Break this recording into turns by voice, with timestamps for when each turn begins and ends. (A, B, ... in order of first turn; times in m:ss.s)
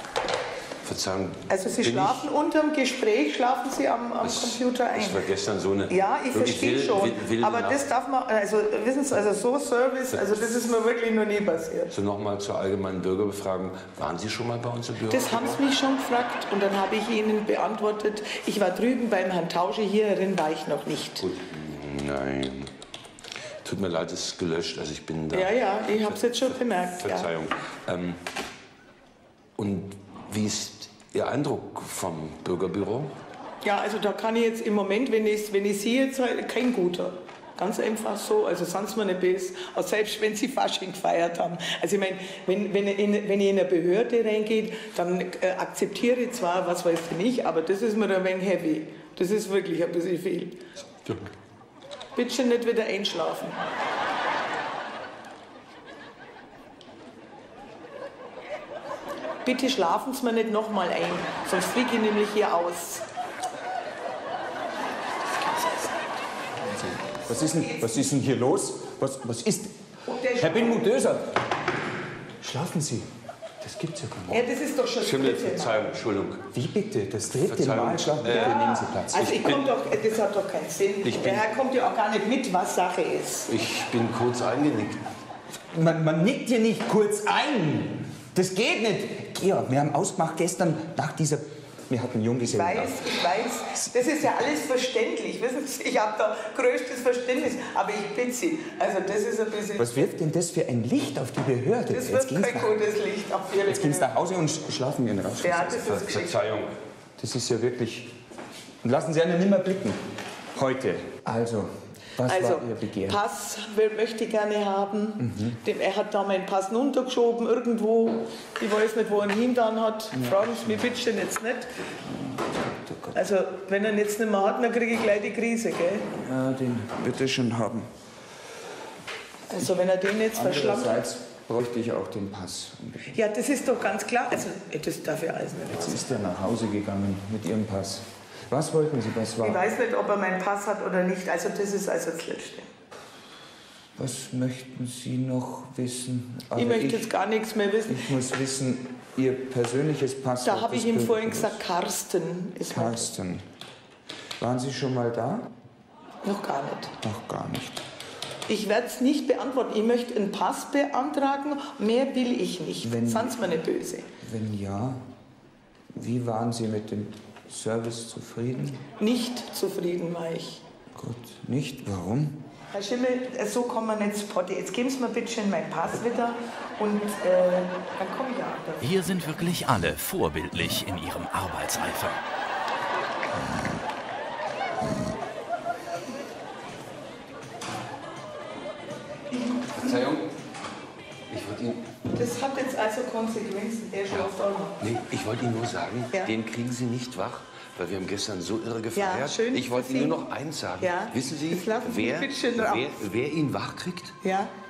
0:00.8-0:02.2 A
0:01.5-0:05.2 B
0:04.2-0:07.8 A
0:05.9-0:11.9 B
0:11.9-0:15.6 A
0:15.1-0:21.2 B
0:21.2-0:22.7 A
0:23.6-0:28.2 A
0:25.3-0:27.3 B
0:29.6-0:33.1 A
0:33.6-0:50.6 B
0:52.2-0:53.6 B
0:59.4-1:03.1 B
1:05.2-1:06.2 B
1:06.6-1:09.8 C
1:07.3-1:08.1 B
1:10.1-1:10.9 B
1:10.4-1:11.3 C
1:12.4-1:13.1 C
1:13.6-1:14.4 C
1:14.3-1:15.8 B
1:15.0-1:16.4 A
1:16.5-1:19.5 C
1:17.4-1:18.6 A
1:18.2-1:23.5 B
1:19.4-1:19.6 A
1:21.0-1:21.5 A
1:23.5-1:25.0 A
1:25.7-1:33.2 C
1:32.5-1:40.1 B
1:39.8-1:42.7 C
1:41.9-1:44.1 B
1:43.7-1:45.9 C
1:45.4-1:46.4 B
1:45.7-1:46.7 A
1:47.2-1:48.1 C
1:48.8-1:50.0 C
1:50.6-1:53.2 C
1:52.3-2:01.7 B
1:55.2-1:55.6 C
2:00.1-2:00.9 C
2:02.0-2:03.2 C
2:03.1-2:06.1 B
2:06.2-2:07.9 C
2:09.5-2:10.9 B
2:10.3-2:13.1 C
2:13.1-2:16.1 B
2:15.7-2:19.6 C
2:19.4-2:22.7 B
2:24.0-2:27.1 C
2:26.6-2:28.1 B
2:27.9-2:31.6 C
2:30.4-2:33.1 B
2:32.7-2:33.5 C
2:34.4-2:35.5 C
2:36.2-2:36.9 B
2:37.0-2:37.8 C
2:38.5-2:44.1 B
2:42.8-2:43.4 C
2:44.2-2:45.0 C
2:45.9-2:48.8 C
2:49.0-2:50.6 B
2:50.9-2:52.4 C
2:52.7-2:59.4 B
2:58.8-3:02.2 D
3:09.5-3:10.0 B
3:09.8-3:10.3 A
3:11.3-3:11.8 A
3:12.2-3:14.8 B
3:14.1-3:24.2 A
3:19.0-3:20.2 B
3:20.8-3:22.9 B
3:24.2-3:24.5 B